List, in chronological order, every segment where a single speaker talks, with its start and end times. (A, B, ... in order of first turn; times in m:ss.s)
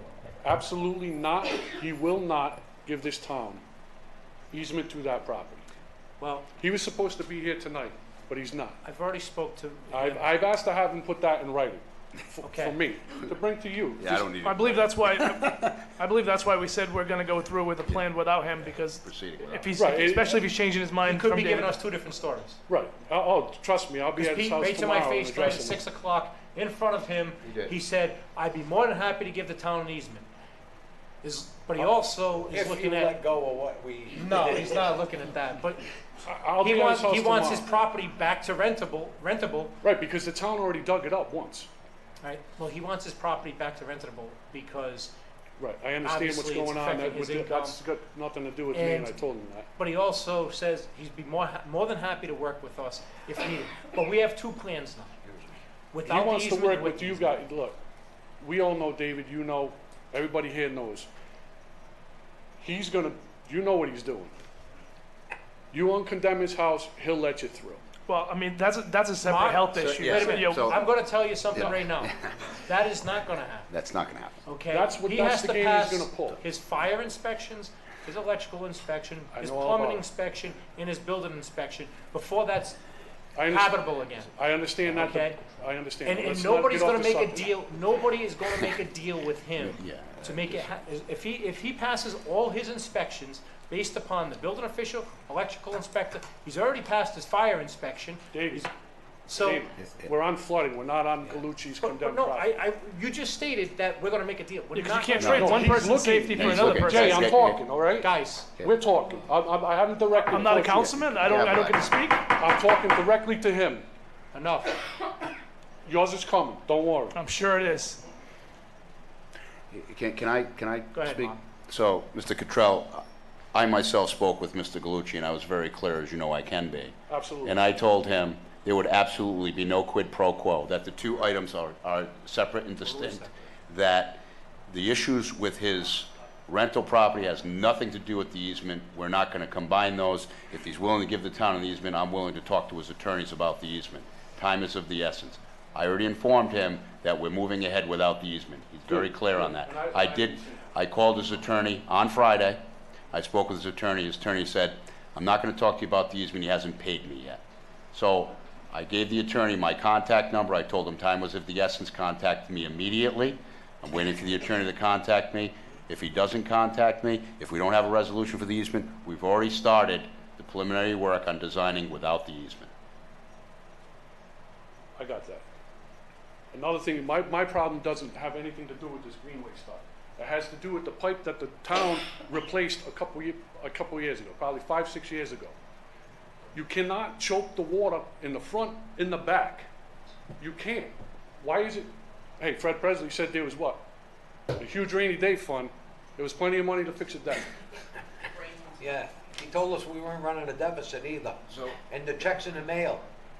0:00.4-0:03.6 A
0:04.5-0:05.7 A
0:06.2-0:06.5 B
0:06.6-0:08.8 A
0:08.8-0:10.2 B
0:09.9-0:14.3 A
0:12.4-0:12.8 B
0:14.0-0:15.7 C
0:14.4-0:21.8 D
0:17.9-0:19.7 C
0:19.8-0:20.4 A
0:21.0-0:22.6 B
0:22.7-0:25.8 A
0:24.1-0:30.2 B
0:27.4-0:27.7 C
0:31.2-0:33.2 B
0:32.5-0:35.1 E
0:34.1-0:35.8 B
0:36.2-0:37.7 A
0:36.6-0:39.7 B
0:39.8-0:41.7 A
0:42.2-0:45.1 B
0:45.6-0:49.7 A
0:46.0-0:47.8 B
0:48.7-0:49.2 B
0:49.8-0:55.2 B
0:55.9-0:57.4 B
0:56.0-0:57.8 A
0:58.4-1:01.1 A
1:02.6-1:04.3 A
1:05.7-1:07.8 A
1:08.1-1:10.8 D
1:09.2-1:13.7 B
1:09.8-1:10.8 C
1:11.5-1:12.4 C
1:13.7-1:14.4 C
1:14.4-1:22.8 B
1:14.7-1:16.4 A
1:19.3-1:20.1 A
1:23.3-1:27.6 A
1:23.4-1:25.4 B
1:26.0-1:38.7 B
1:29.6-1:30.7 C
1:38.3-1:38.7 A
1:39.3-1:39.7 B
1:39.3-1:42.6 A
1:41.8-1:45.8 B
1:44.7-1:47.3 D
1:45.2-1:45.6 C
1:45.3-1:51.0 A
1:46.3-1:47.6 C
1:48.0-1:48.5 B
1:50.3-1:52.3 D
1:50.7-1:51.8 C
1:52.3-1:53.8 A
1:54.3-1:54.8 B
1:55.8-1:57.2 A
1:57.1-1:58.0 D
1:59.7-2:37.4 C
2:00.9-2:01.4 B
2:07.1-2:07.6 A
2:12.8-2:13.4 B
2:28.9-2:30.7 A
2:37.9-2:52.7 C
2:55.0-2:55.4 A
2:56.5-3:05.5 A
3:06.5-3:09.7 A
3:10.4-3:13.8 A
3:14.6-3:17.5 A
3:18.8-3:23.0 E
3:21.5-3:21.8 C